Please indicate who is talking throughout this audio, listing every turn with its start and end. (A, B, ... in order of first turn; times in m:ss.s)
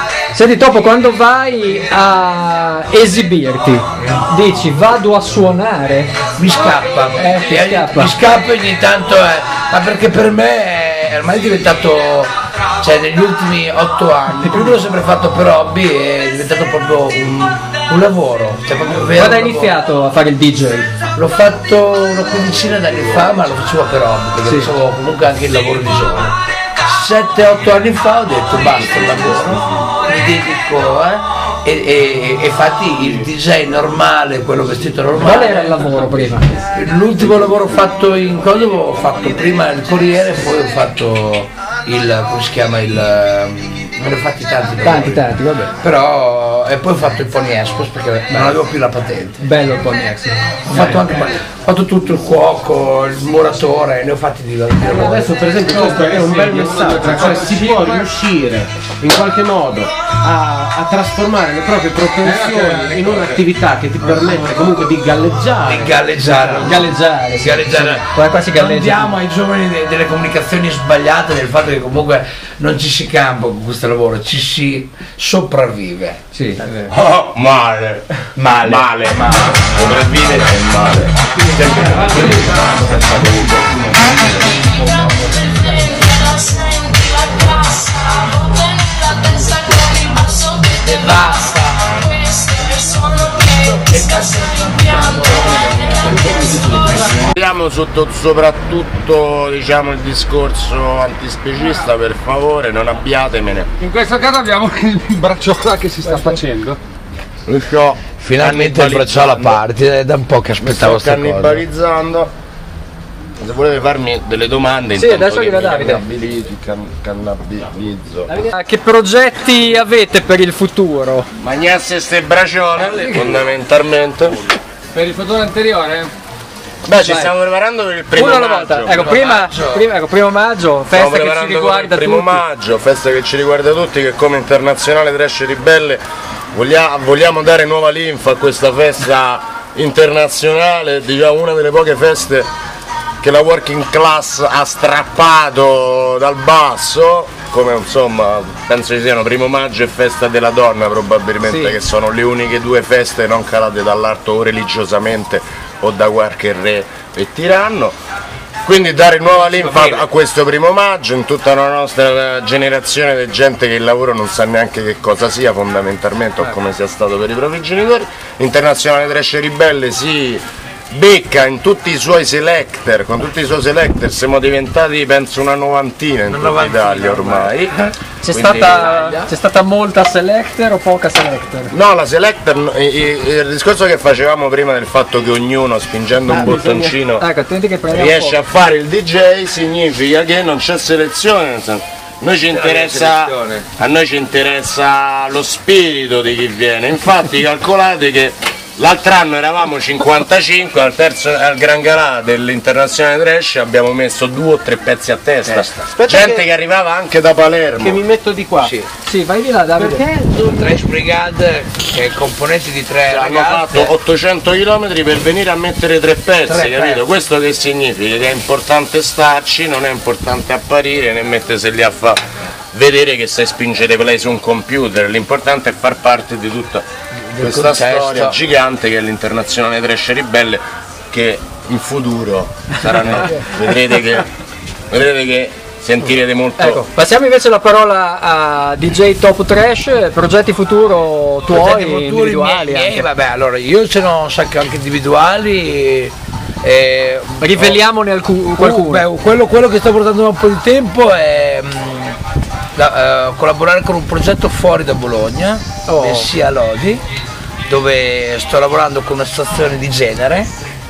0:00.3-0:06.2 A
0:06.4-0:19.8 B
0:07.2-0:08.1 A
0:19.2-0:20.9 A
0:21.2-0:36.0 B
0:24.4-0:24.7 A
0:28.6-0:29.9 C
0:35.2-0:36.7 A
0:36.7-0:49.4 B
0:44.8-0:45.7 A
0:49.4-0:51.1 A
0:50.7-0:55.4 B
0:54.9-1:06.0 D
0:55.6-0:58.1 E
1:02.2-1:03.4 E
1:05.6-1:16.2 B
1:06.6-1:09.2 A
1:16.3-1:16.7 A
1:16.9-1:24.6 C
1:18.4-1:19.7 B
1:24.1-1:28.5 B
1:29.0-1:30.1 B
1:30.7-1:37.2 B
1:37.1-1:43.7 C
1:43.8-1:46.8 E
1:47.5-1:49.6 C
1:48.2-1:51.6 B
1:50.6-1:52.3 C
1:53.4-1:58.4 C
1:55.0-1:56.0 A
1:58.3-2:01.3 A
2:01.4-2:04.5 C
2:04.9-2:06.1 E
2:06.9-2:09.1 C
2:07.0-2:07.3 A
2:08.2-2:12.4 A
2:09.0-2:09.9 B
2:10.9-2:16.0 C
2:16.5-2:22.5 C
2:23.2-2:38.0 C
2:31.5-2:31.8 A
2:38.6-2:59.1 C
2:56.3-2:57.6 B
2:58.2-3:01.7 A
2:58.6-2:59.0 D
3:01.7-3:07.2 C
3:06.3-3:07.0 D
3:07.2-3:08.4 A
3:07.9-3:28.0 C
3:12.5-3:13.6 B
3:25.5-3:25.8 B
3:25.9-3:26.5 D
3:27.8-3:28.8 D
3:28.6-3:28.9 B
3:29.0-3:30.0 A
3:29.8-3:30.8 D
3:30.5-3:33.9 B
3:33.1-3:42.2 C
3:36.5-3:37.1 B
3:42.7-3:46.8 C
3:47.3-3:48.4 B
3:47.4-3:54.3 C
3:54.9-3:56.8 C
3:56.6-4:03.1 A
4:01.5-4:07.8 B
4:07.4-4:09.1 A
4:08.6-4:12.2 B
4:12.8-4:17.0 B
4:15.9-4:16.3 A
4:17.7-4:20.5 B